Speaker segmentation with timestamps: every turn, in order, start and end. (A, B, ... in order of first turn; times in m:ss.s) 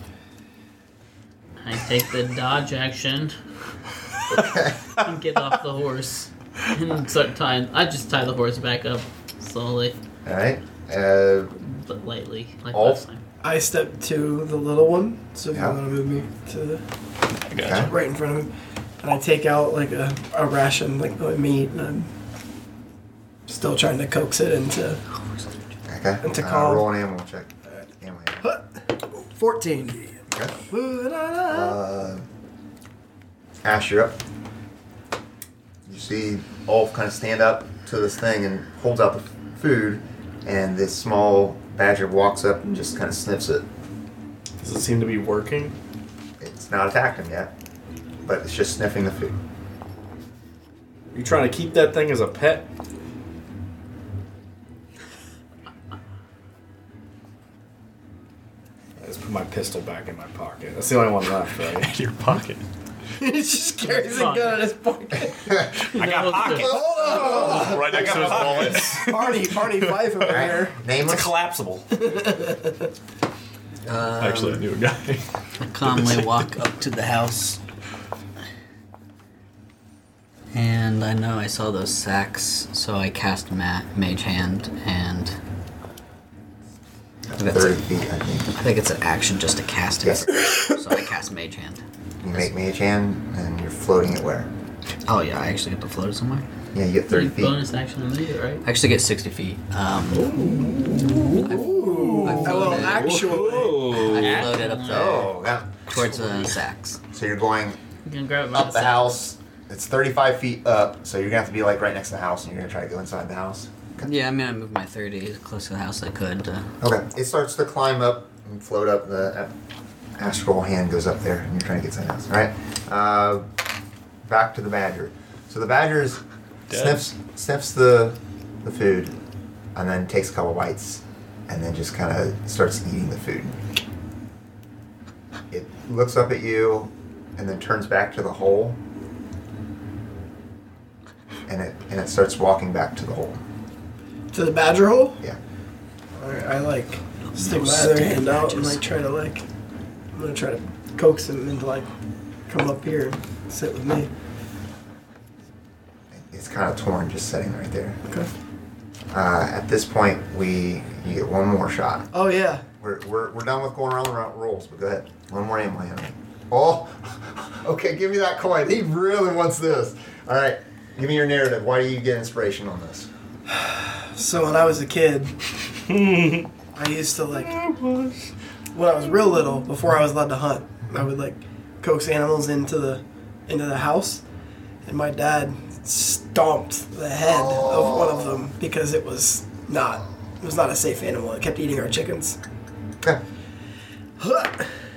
0:01.6-0:03.4 A
0:04.3-0:04.9 B
0:05.0-0:10.0 A
0:10.2-0:11.5 B
0:11.6-0:13.2 A
0:12.7-0:13.0 B
0:13.4-0:16.8 C
0:15.5-0:15.8 B
0:17.5-0:17.9 D
0:17.6-0:17.9 B
0:17.8-0:22.1 C
0:23.5-0:25.0 C
0:25.9-0:28.4 B
0:26.2-0:26.9 C
0:28.4-0:30.1 C
0:30.3-0:30.6 B
0:30.7-0:31.8 C
0:31.5-0:32.2 B
0:33.6-0:34.2 B
0:35.9-0:43.7 B
0:44.6-0:45.8 E
0:46.4-0:47.5 B
0:48.2-0:49.4 B
0:51.1-0:52.7 E
0:59.0-1:01.9 E
1:01.7-1:02.6 D
1:03.2-1:05.5 C
1:03.9-1:04.7 A
1:05.3-1:05.8 B
1:05.9-1:06.8 A
1:06.0-1:09.2 E
1:06.7-1:10.8 C
1:06.8-1:10.3 D
1:10.3-1:11.4 B
1:11.0-1:11.9 E
1:11.9-1:12.9 C
1:13.8-1:14.7 F
1:14.2-1:15.3 D
1:15.6-1:17.6 F
1:15.9-1:16.2 D
1:20.5-1:25.4 F
1:27.3-1:28.5 B
1:27.4-1:27.8 F
1:28.5-1:32.5 F
1:30.0-1:30.3 B
1:32.2-1:34.5 B
1:35.0-1:36.5 F
1:36.7-1:37.6 B
1:37.1-1:38.6 A
1:38.6-1:40.5 F
1:40.2-1:44.5 E
1:40.3-1:40.7 C
1:41.3-1:43.3 F
1:41.5-1:43.9 C
1:43.9-1:45.4 F
1:44.1-1:45.3 A
1:44.9-1:46.2 B
1:45.9-1:47.0 F
1:47.1-1:47.8 B
1:48.0-1:49.2 A
1:48.5-1:54.1 B
1:54.0-1:56.8 F
1:56.8-1:59.5 B
2:00.2-2:03.5 B
2:04.2-2:09.2 B
2:06.7-2:07.0 D
2:09.8-2:13.6 B
2:15.5-2:18.8 B
2:21.5-2:23.4 B
2:24.3-2:25.2 C
2:26.2-2:29.4 C
2:27.3-2:28.8 F
2:30.1-2:31.9 C
2:32.5-2:34.1 C
2:36.1-2:38.0 B
2:39.1-2:42.1 B
2:42.1-2:42.6 C
2:42.8-2:53.1 B
2:53.5-2:55.3 C
2:55.9-2:56.5 E
2:56.7-2:57.6 C
2:57.4-2:58.2 E
2:58.7-3:04.2 C
3:04.8-3:12.4 C
3:07.2-3:08.5 B
3:14.2-3:14.8 C